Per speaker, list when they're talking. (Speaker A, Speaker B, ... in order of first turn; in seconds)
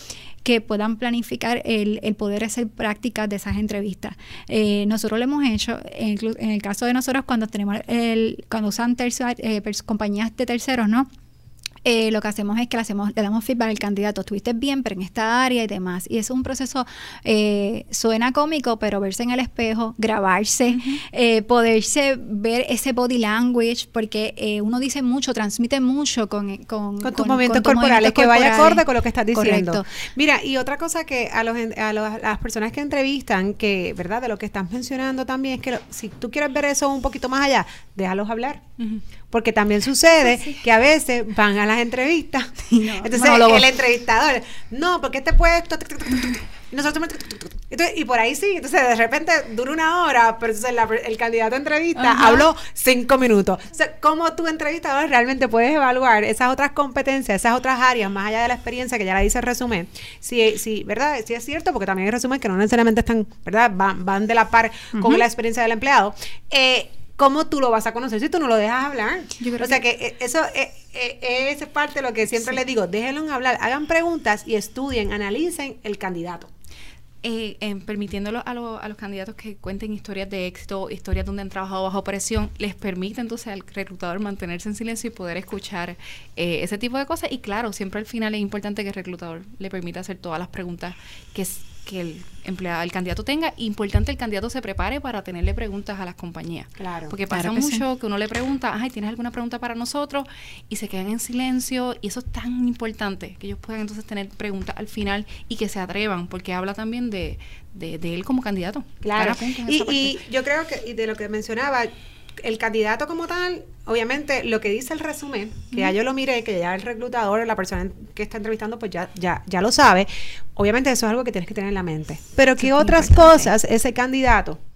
Speaker A: 0.4-11.1, 11.8-29.9, 42.7-43.6, 65.0-65.2, 69.4-69.8, 97.3-97.8, 122.8-123.1
Speaker B: 20.7-21.0, 77.2-110.2
Speaker C: 27.0-38.6, 39.3-76.5, 96.8-97.1, 109.0-124.6